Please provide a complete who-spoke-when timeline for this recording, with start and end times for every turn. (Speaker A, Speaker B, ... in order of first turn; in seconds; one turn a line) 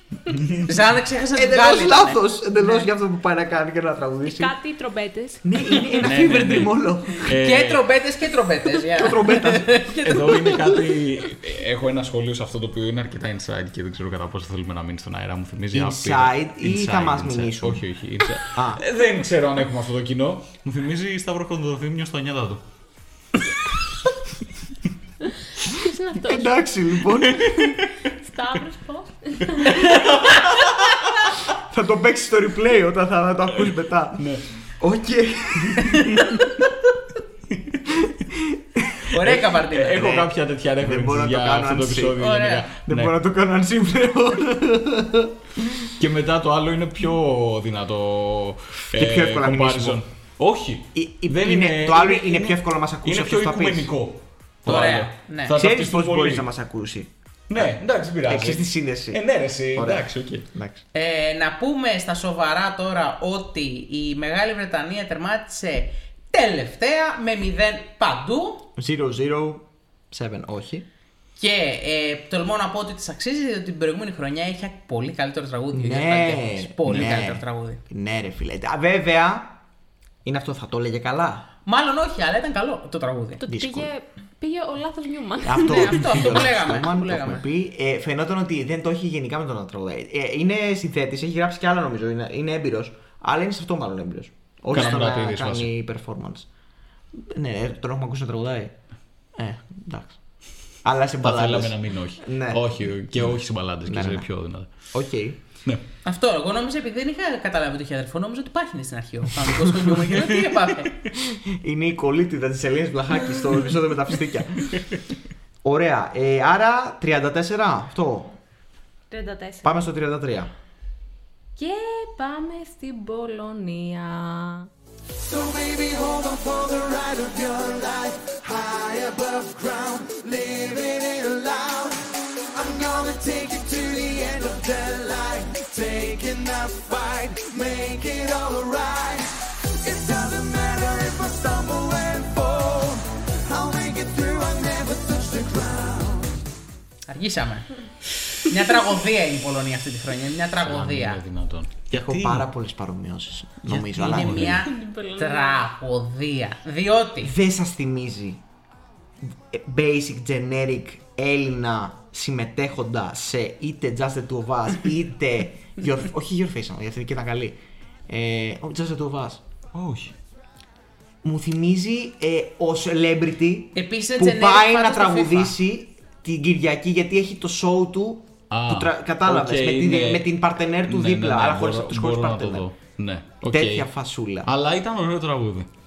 Speaker A: 0.6-2.8
Speaker B: 1.3-4.5
Speaker C: 4.3-5.5
Speaker B: 5.4-7.3
Speaker D: 6.0-7.9
Speaker A: 7.2-10.0
Speaker B: 8.9-9.9
Speaker C: 9.9-10.6
Speaker D: 10.0-22.6
Speaker B: 15.7-17.9
Speaker B: 18.5-18.8
Speaker C: 25.6-26.6
Speaker B: 26.2-27.6
Speaker D: 27.2-27.7
Speaker C: 27.6-29.9
Speaker D: 30.0-30.7
Speaker B: 31.5-36.5
Speaker D: 34.2-34.5
Speaker D: 35.6-36.3
Speaker B: 38.0-39.1
Speaker A: 39.1-40.1
Speaker D: 39.2-43.1
Speaker B: 39.8-42.2
Speaker A: 42.2-42.7
Speaker B: 42.8-45.6
Speaker D: 46.0-56.5
Speaker B: 48.9-50.0
Speaker B: 51.0-53.9
Speaker A: 54.7-55.5
Speaker B: 55.5-57.7
Speaker D: 57.5-60.5
Speaker B: 58.2-59.2
Speaker B: 59.7-60.8
Speaker A: 60.9-68.7
Speaker B: 68.8-70.8
Speaker A: 71.4-77.8
Speaker B: 75.7-79.6
Speaker B: 80.2-81.5
Speaker A: 81.7-83.4
Speaker C: 83.4-86.1
Speaker B: 83.5-83.9
Speaker B: 85.4-96.5
Speaker A: 85.6-87.5
Speaker D: 94.7-95.7
Speaker B: 97.2-98.8
Speaker B: 99.4-100.2
Speaker B: 100.8-102.7
Speaker D: 101.2-104.7
Speaker B: 103.9-104.3
Speaker B: 104.9-105.4
Speaker A: 106.0-111.0
Speaker D: 110.2-110.6
Speaker B: 111.3-114.8
Speaker B: 115.6-118.4
Speaker C: 119.1-119.8
Speaker B: 119.6-120.5
Speaker C: 121.6-124.7
Speaker E: 125.2-132.0
Speaker E: 132.5-146.3
Speaker A: 147.1-147.7
Speaker A: 148.4-151.2
Speaker D: 150.6-152.5
Speaker B: 151.9-154.6
Speaker D: 153.7-154.6
Speaker A: 154.0-157.3
Speaker C: 154.5-155.7
Speaker B: 157.2-158.4
Speaker B: 159.2-169.4
Speaker D: 169.7-170.1
Speaker B: 171.2-182.7
Speaker A: 173.8-175.6
Speaker D: 178.5-180.3
Speaker D: 180.8-183.9
Speaker B: 183.4-184.5
Speaker D: 184.4-185.7